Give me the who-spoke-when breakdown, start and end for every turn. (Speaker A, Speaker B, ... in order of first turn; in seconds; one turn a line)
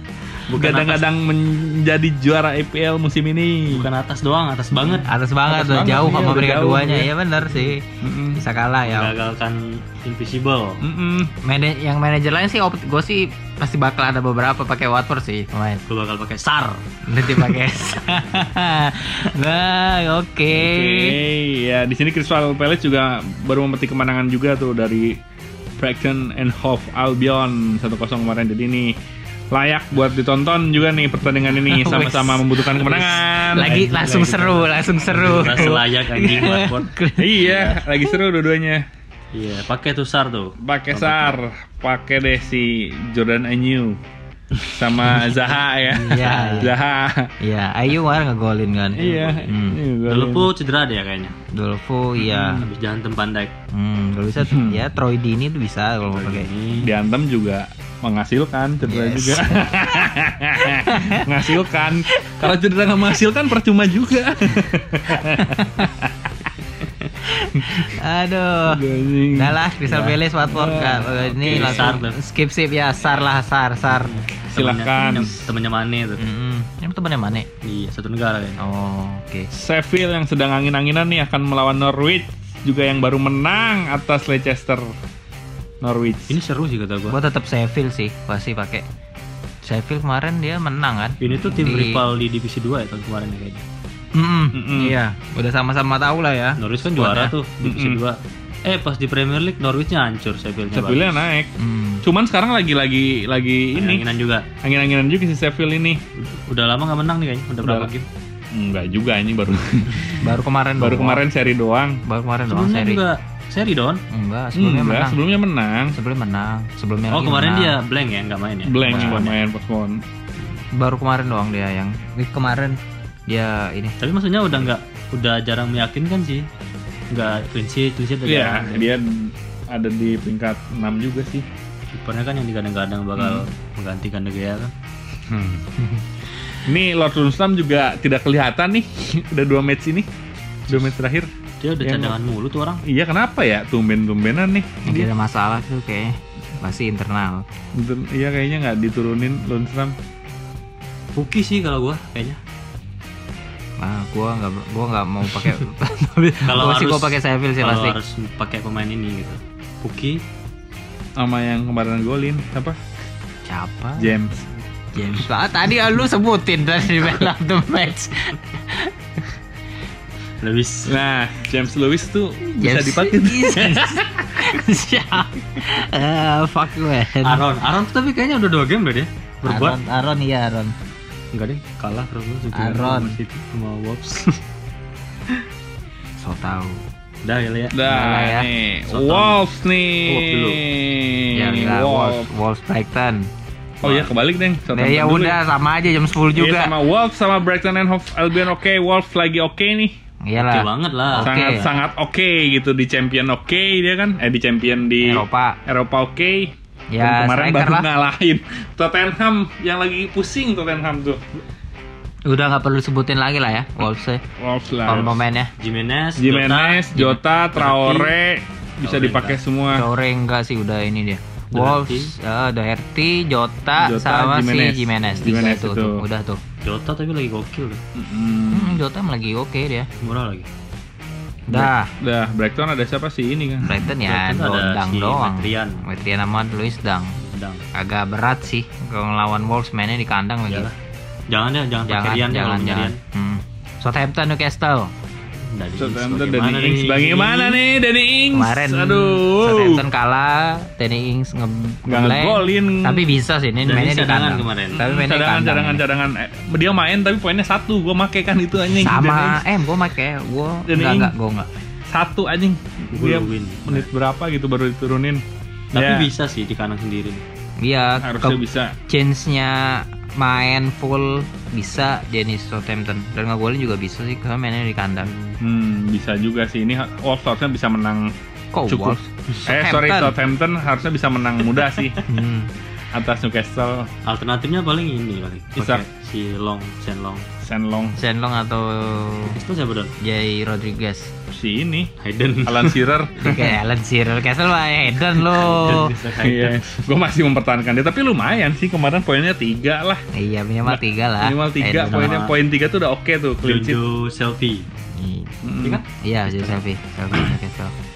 Speaker A: 0.5-1.0
Speaker B: 0.5-3.9
Speaker A: 3.7-5.1
Speaker B: 4.8-7.1
Speaker C: 5.1-7.8
Speaker A: 7.5-7.7
Speaker B: 8.0-8.4
Speaker C: 8.3-9.1
Speaker A: 8.8-10.8
Speaker B: 10.8-11.3
Speaker C: 11.4-15.8
Speaker A: 15.9-17.6
Speaker C: 17.1-21.2
Speaker B: 20.5-25.2
Speaker B: 25.8-29.0
Speaker B: 29.5-33.8
Speaker C: 31.7-37.9
Speaker A: 31.9-32.1
Speaker A: 33.6-36.9
Speaker B: 37.2-38.9
Speaker A: 37.5-37.8
Speaker A: 39.3-41.4
Speaker B: 40.6-44.0
Speaker A: 44.6-45.1
Speaker B: 44.7-47.3
Speaker C: 45.9-46.7
Speaker A: 46.1-46.7
Speaker C: 47.4-49.8
Speaker B: 49.0-50.5
Speaker A: 49.0-49.5
Speaker A: 50.1-51.4
Speaker C: 51.5-52.7
Speaker B: 52.2-52.6
Speaker A: 52.5-53.5
Speaker C: 53.7-56.5
Speaker B: 54.4-54.8
Speaker A: 56.1-56.9
Speaker B: 56.8-66.5
Speaker C: 58.8-59.7
Speaker C: 60.6-61.5
Speaker C: 65.4-65.9
Speaker C: 67.3-68.8
Speaker B: 67.5-67.9
Speaker B: 68.7-69.6
Speaker C: 69.3-74.1
Speaker A: 69.8-70.2
Speaker B: 70.4-72.0
Speaker A: 71.5-72.2
Speaker A: 73.9-76.2
Speaker B: 74.5-75.5
Speaker C: 76.2-77.5
Speaker A: 77.6-78.6
Speaker C: 78.6-79.5
Speaker B: 79.5-84.9
Speaker B: 85.8-86.4
Speaker A: 86.3-87.2
Speaker C: 87.1-88.8
Speaker C: 89.6-92.0
Speaker A: 91.2-93.6
Speaker C: 94.2-97.3
Speaker B: 94.5-95.0
Speaker A: 96.6-101.2
Speaker B: 97.6-98.0
Speaker B: 100.7-101.5
Speaker C: 101.6-102.0
Speaker B: 102.0-104.1
Speaker A: 103.7-104.5
Speaker B: 104.6-106.0
Speaker A: 106.2-108.1
Speaker B: 107.6-107.9
Speaker B: 108.5-110.3
Speaker C: 110.2-111.2
Speaker B: 110.8-112.0
Speaker C: 112.1-113.0
Speaker A: 112.5-114.0
Speaker C: 114.1-115.2
Speaker B: 114.5-116.0
Speaker C: 116.0-117.8
Speaker A: 117.1-119.4
Speaker B: 118.7-120.0
Speaker C: 118.9-119.2
Speaker C: 120.8-124.0
Speaker A: 124.0-126.5
Speaker A: 127.1-128.9
Speaker B: 128.2-131.5
Speaker A: 131.9-134.7
Speaker B: 133.2-133.5
Speaker B: 135.3-135.7
Speaker B: 136.7-140.1
Speaker B: 140.7-141.3
Speaker A: 141.6-142.8
Speaker B: 141.8-142.2
Speaker B: 142.8-145.1
Speaker C: 144.8-147.4
Speaker B: 147.8-150.0
Speaker A: 151.2-152.4
Speaker C: 153.8-158.0
Speaker A: 156.4-160.2
Speaker B: 161.2-162.8
Speaker C: 163.4-164.2
Speaker B: 164.0-165.2
Speaker C: 165.0-168.9
Speaker A: 170.4-170.9
Speaker B: 170.9-174.5
Speaker C: 172.6-177.5
Speaker A: 177.2-179.8
Speaker C: 179.5-180.8
Speaker A: 181.3-184.4
Speaker C: 182.5-183.2
Speaker C: 186.2-186.8
Speaker A: 187.2-187.8
Speaker B: 187.7-192.3
Speaker C: 187.9-188.5
Speaker A: 188.9-189.4
Speaker A: 190.1-190.6
Speaker C: 191.3-193.3
Speaker A: 193.8-194.1
Speaker B: 193.8-195.4
Speaker C: 194.7-196.7
Speaker B: 196.3-199.9
Speaker C: 200.3-201.7
Speaker A: 200.4-201.7
Speaker B: 201.2-211.3
Speaker C: 205.0-205.6
Speaker C: 206.9-207.9
Speaker C: 212.3-214.2
Speaker B: 214.4-215.2
Speaker C: 214.9-215.5
Speaker A: 214.9-216.9
Speaker B: 216.2-219.9
Speaker A: 217.5-218.2
Speaker A: 218.9-219.3
Speaker C: 218.9-226.4
Speaker A: 221.5-222.1
Speaker B: 223.8-226.1
Speaker A: 226.6-227.8
Speaker B: 227.9-228.8
Speaker C: 228.5-229.9
Speaker A: 230.0-230.5
Speaker C: 231.5-231.9
Speaker B: 231.5-233.7
Speaker C: 233.6-237.2
Speaker A: 233.9-235.9
Speaker A: 237.2-237.6
Speaker C: 237.8-240.7
Speaker A: 240.5-240.7
Speaker A: 241.3-243.0
Speaker C: 241.9-244.9
Speaker A: 245.4-247.6
Speaker B: 245.8-249.8
Speaker C: 248.3-255.8
Speaker B: 251.9-253.0
Speaker A: 253.6-254.8
Speaker B: 254.8-259.4
Speaker C: 258.7-261.5
Speaker B: 260.7-261.1
Speaker B: 261.9-265.2
Speaker A: 262.9-263.9
Speaker B: 265.7-266.1
Speaker A: 265.7-267.2
Speaker C: 267.6-275.1
Speaker B: 268.0-268.8
Speaker A: 275.0-275.4
Speaker B: 275.4-278.1
Speaker C: 278.5-280.1
Speaker B: 278.7-282.0
Speaker A: 281.8-282.0
Speaker C: 282.1-282.5
Speaker B: 282.9-283.9
Speaker A: 284.1-287.3
Speaker B: 285.6-285.8
Speaker B: 287.4-288.0
Speaker C: 288.0-289.4
Speaker A: 289.3-289.9
Speaker C: 290.0-291.1
Speaker B: 291.3-291.9
Speaker A: 292.0-293.6
Speaker B: 292.5-293.5
Speaker C: 293.2-295.9
Speaker A: 295.2-296.9
Speaker B: 296.2-300.0
Speaker C: 300.1-302.3
Speaker B: 300.7-303.8
Speaker A: 303.4-304.7
Speaker C: 304.9-305.4
Speaker B: 305.4-305.8
Speaker A: 305.6-306.6
Speaker C: 306.0-307.7